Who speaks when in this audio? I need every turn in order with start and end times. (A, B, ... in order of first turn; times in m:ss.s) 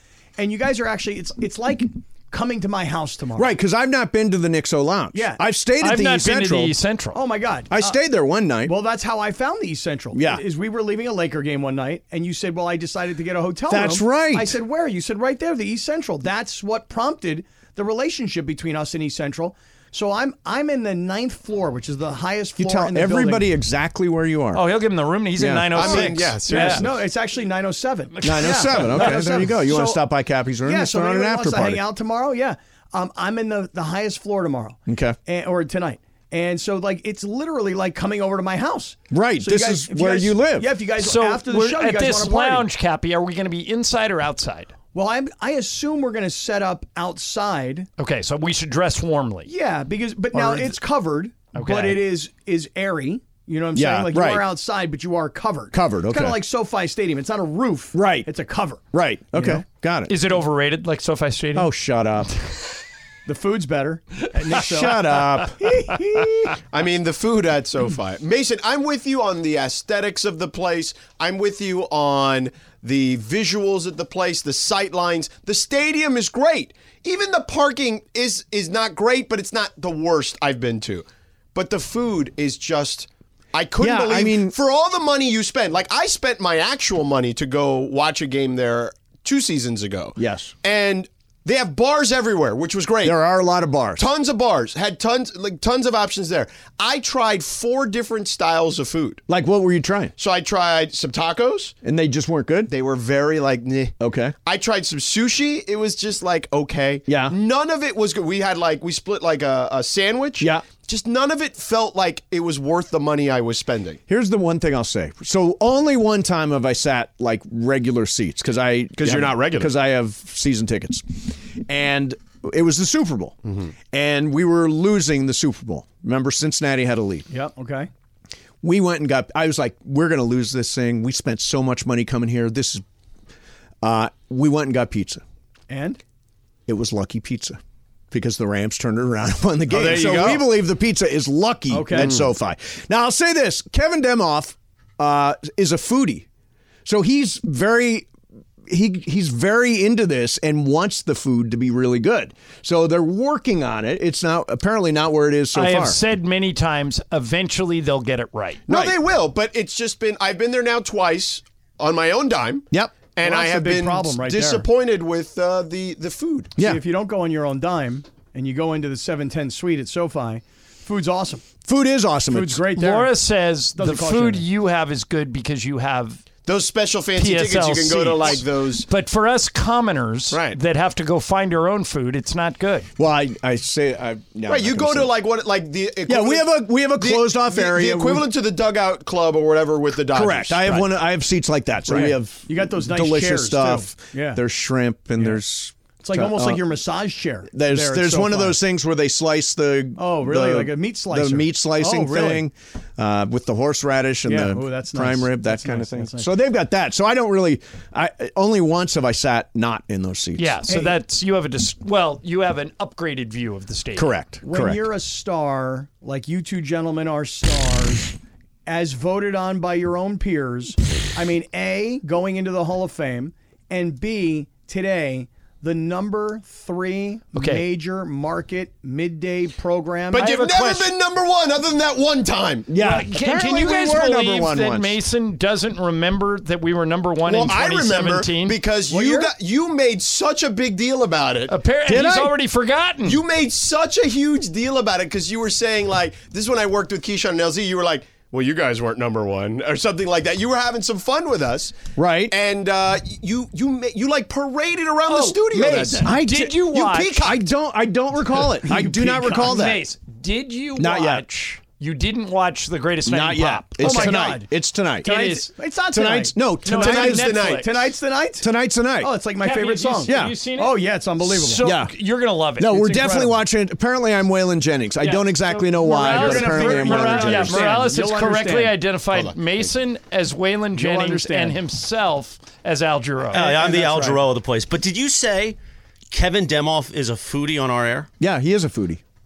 0:00.4-0:03.5 A
0:03.4-0:06.7 B
0:05.1-0:05.4 A
0:05.8-0:07.2 C
0:07.1-0:08.0 A
0:07.7-0:08.7 B
0:08.6-0:23.5 A
0:10.1-0:10.4 B
0:13.7-0:14.6 B
0:22.6-0:24.7 B
0:24.5-0:26.9 C
0:25.4-0:26.1 B
0:25.7-0:27.0 D
0:25.8-0:30.0 A
0:28.1-0:29.3 C
0:28.2-0:31.8 B
0:30.6-0:42.7 A
0:34.9-0:35.2 B
0:39.1-0:40.7 B
0:40.9-0:44.7 C
0:44.9-0:47.9 A
0:48.0-0:49.5 C
0:49.4-0:59.6 A
0:50.3-0:50.8 B
0:51.5-0:52.0 C
0:53.7-0:54.5 B
0:55.7-0:56.4 B
0:57.9-0:58.3 B
0:58.9-1:00.1 B
1:00.1-1:01.7 C
1:01.5-1:02.3 B
1:03.2-1:06.0 A
1:04.5-1:06.3 B
1:06.7-1:33.2 D
1:23.8-1:24.5 B
1:30.2-1:30.5 B
1:33.0-1:34.1 B
1:34.0-1:39.2 D
1:39.3-1:40.1 B
1:40.2-1:41.8 D
1:41.8-1:42.7 B
1:42.7-1:54.0 D
1:44.0-1:44.3 B
1:47.0-1:47.3 B
1:50.4-1:50.6 B
1:54.1-2:03.3 B
1:59.0-1:59.7 D
2:03.4-2:03.7 D
2:03.9-2:07.3 B
2:07.3-2:07.9 A
2:08.6-2:12.8 B
2:13.8-2:15.2 B
2:15.7-2:16.0 A
2:16.7-2:17.6 B
2:18.1-2:26.2 B
2:19.7-2:20.6 D
2:21.7-2:22.1 A
2:21.9-2:22.3 D
2:26.8-2:28.1 B
2:28.7-2:36.0 B
2:35.5-2:38.6 C
2:38.7-2:46.6 D
2:38.7-2:39.0 B
2:42.7-2:43.0 B
2:43.2-2:44.6 A
2:44.2-2:44.6 B
2:46.6-2:46.8 B
2:46.6-2:51.4 A
2:51.6-2:52.7 B
2:52.3-2:53.1 A
2:52.7-2:56.2 C
2:53.7-2:54.4 A
2:56.4-2:58.9 D
2:57.1-3:02.9 C
3:00.3-3:00.6 D
3:03.0-3:05.1 B
3:04.4-3:10.9 D
3:06.1-3:08.3 B
3:10.1-3:16.6 B
3:11.9-3:14.4 A
3:16.0-3:18.6 A
3:17.5-3:30.7 B
3:20.0-3:22.5 A
3:24.2-3:26.4 A
3:30.4-3:34.1 C
3:30.7-3:31.0 A
3:33.9-3:34.9 B
3:34.4-3:38.1 A
3:38.6-3:50.4 A
3:47.3-3:47.6 C
3:50.1-3:52.7 D
3:50.2-3:50.9 C
3:52.7-3:55.0 B
3:52.8-3:58.6 C
3:57.2-4:01.6 D
3:58.9-3:59.3 A
4:01.5-4:03.2 C
4:01.8-4:02.4 B
4:03.0-4:16.2 D
4:11.9-4:12.3 B
4:15.0-4:16.2 A
4:16.0-4:19.8 B
4:16.1-4:17.4 C
4:18.6-4:19.8 A
4:19.3-4:24.4 C
4:20.8-4:21.3 B
4:23.0-4:25.1 B
4:23.8-4:24.5 A
4:25.0-4:31.7 A
4:25.0-4:25.5 C
4:25.9-4:27.2 B
4:26.7-4:27.8 D
4:26.8-4:27.6 C
4:28.4-4:29.2 B
4:29.3-4:32.8 C
4:30.0-4:30.4 B
4:31.6-4:32.0 B
4:32.6-4:37.8 B
4:32.7-4:33.4 A
4:35.0-4:44.0 C
4:35.8-4:38.8 A
4:39.1-4:39.7 D
4:40.7-4:41.6 A
4:43.3-4:44.2 A
4:43.3-4:45.6 E
4:46.1-4:48.1 E
4:48.2-4:49.0 B